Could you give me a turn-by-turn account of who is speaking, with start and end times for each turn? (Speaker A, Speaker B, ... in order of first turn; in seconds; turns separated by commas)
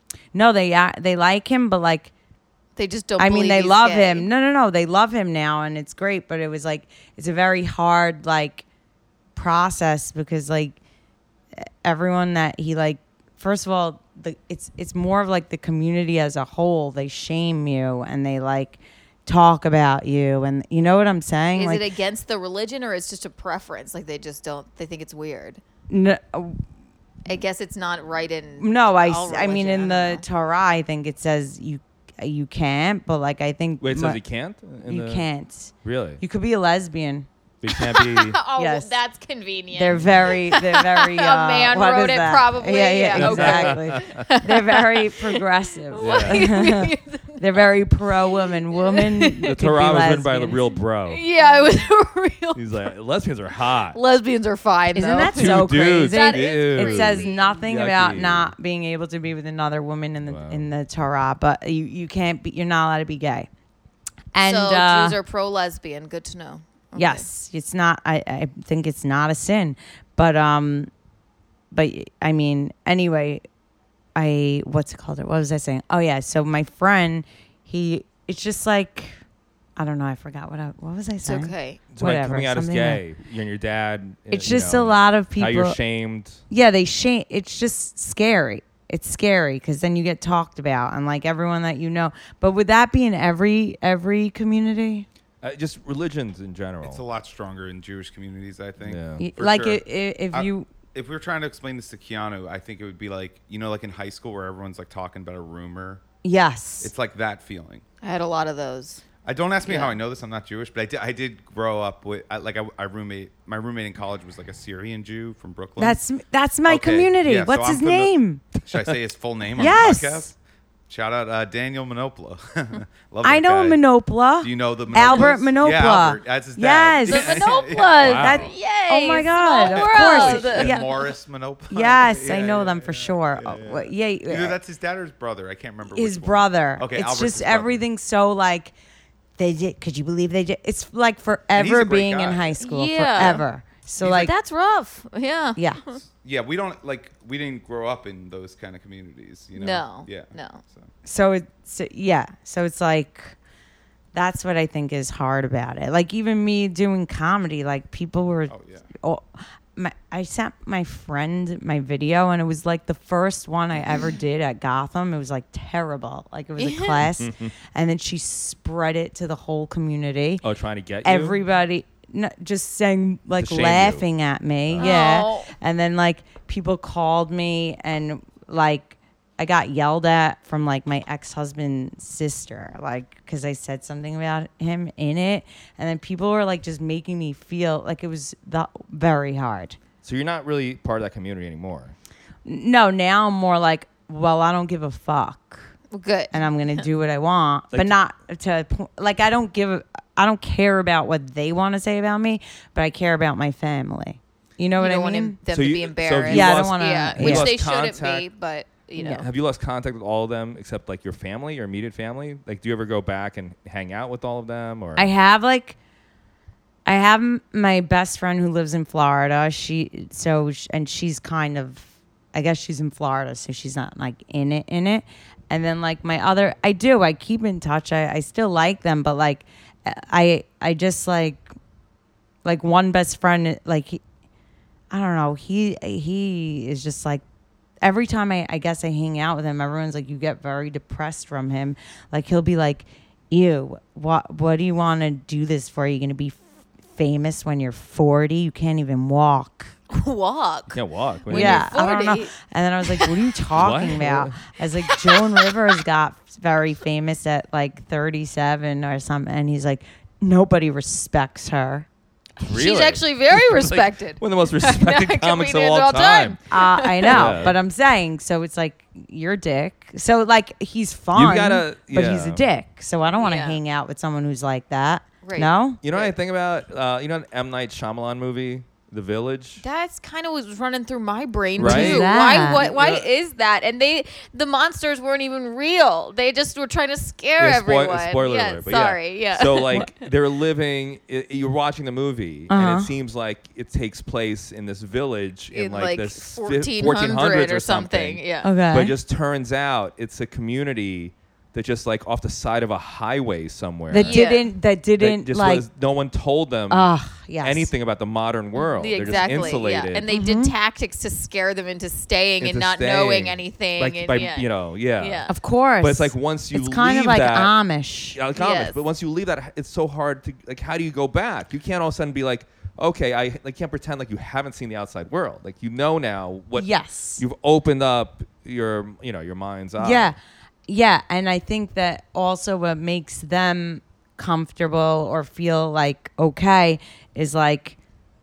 Speaker A: 0.3-2.1, Speaker B: 2.8-4.3, Speaker A: 3.2-8.6, Speaker A: 9.3-10.8, Speaker A: 11.6-21.8, Speaker B: 21.6-25.6, Speaker A: 25.9-26.6, Speaker B: 27.2-30.2, Speaker A: 28.6-34.2, Speaker C: 33.8-35.2, Speaker A: 34.8-37.3, Speaker C: 35.8-36.2, Speaker C: 37.6-38.4, Speaker B: 37.7-47.7, Speaker A: 38.5-38.9, Speaker A: 39.7-50.6, Speaker C: 43.1-44.3, Speaker C: 46.0-46.5, Speaker B: 48.2-49.4, Speaker C: 49.4-51.2, Speaker B: 51.1-52.8, Speaker C: 52.5-54.0, Speaker B: 53.9-57.6, Speaker A: 54.9-63.5, Speaker C: 55.3-58.5, Speaker C: 60.2-60.6, Speaker A: 64.3-65.2, Speaker B: 64.4-67.2, Speaker A: 67.0-70.9, Speaker A: 71.7-73.4, Speaker A: 74.1-79.2, Speaker A: 79.8-83.0, Speaker B: 81.2-81.8, Speaker C: 81.9-86.4, Speaker A: 84.3-85.8, Speaker A: 86.5-95.0, Speaker C: 95.4-97.0, Speaker D: 96.8-106.0, Speaker C: 98.8-99.2, Speaker A: 99.2-100.7, Speaker A: 106.2-106.9, Speaker D: 106.8-107.8, Speaker B: 108.0-109.0, Speaker D: 109.2-116.0, Speaker B: 109.6-110.0, Speaker A: 115.8-118.4, Speaker D: 116.7-120.4, Speaker A: 119.6-120.3, Speaker D: 120.9-123.8, Speaker A: 123.2-130.9, Speaker D: 124.4-128.2, Speaker B: 127.0-131.0, Speaker C: 128.0-128.5, Speaker D: 129.6-137.8, Speaker A: 131.7-134.6, Speaker A: 135.9-138.7, Speaker A: 139.4-144.3, Speaker D: 141.5-142.6, Speaker B: 142.6-143.4, Speaker D: 144.0-144.3, Speaker B: 144.0-146.0, Speaker A: 145.6-145.8, Speaker D: 146.2-150.9, Speaker B: 149.5-150.6, Speaker A: 151.0-153.3, Speaker A: 154.1-170.4, Speaker D: 158.5-158.9, Speaker B: 166.6-167.1, Speaker C: 167.2-167.5, Speaker C: 170.4-171.4, Speaker A: 171.0-189.8, Speaker C: 173.4-174.0, Speaker C: 174.7-174.9, Speaker B: 174.8-175.5, Speaker C: 190.0-191.9, Speaker A: 192.4-195.7, Speaker B: 195.9-196.8, Speaker A: 196.3-205.3, Speaker B: 204.8-209.3, Speaker C: 205.5-208.2, Speaker A: 206.3-207.5, Speaker C: 209.0-215.1, Speaker A: 214.9-215.8, Speaker A: 216.8-231.4, Speaker A: 232.4-234.0, Speaker A: 234.9-237.2, Speaker A: 237.8-246.4, Speaker A: 246.9-249.7, Speaker B: 249.9-253.3, Speaker C: 250.7-251.7, Speaker A: 251.3-261.9, Speaker C: 253.5-254.4, Speaker B: 254.9-255.5, Speaker B: 262.4-267.4, Speaker C: 262.4-266.4, Speaker A: 266.5-275.8, Speaker C: 267.1-267.6, Speaker C: 271.1-272.4, Speaker B: 273.2-273.6, Speaker B: 275.2-276.1, Speaker C: 275.8-279.6, Speaker B: 279.6-289.9, Speaker C: 281.6-283.1, Speaker A: 281.6-282.6, Speaker C: 287.4-304.3, Speaker A: 292.5-292.9, Speaker B: 295.5-298.5, Speaker A: 298.4-298.9, Speaker A: 303.9-305.6, Speaker B: 304.0-304.4, Speaker C: 305.0-310.1, Speaker A: 306.7-307.7, Speaker B: 308.6-315.3, Speaker A: 309.1-309.4, Speaker A: 310.1-310.5, Speaker C: 312.4-315.3, Speaker A: 315.3-318.2, Speaker C: 315.8-317.5, Speaker C: 318.1-330.1, Speaker B: 318.4-318.8, Speaker A: 326.6-327.2, Speaker A: 329.8-337.8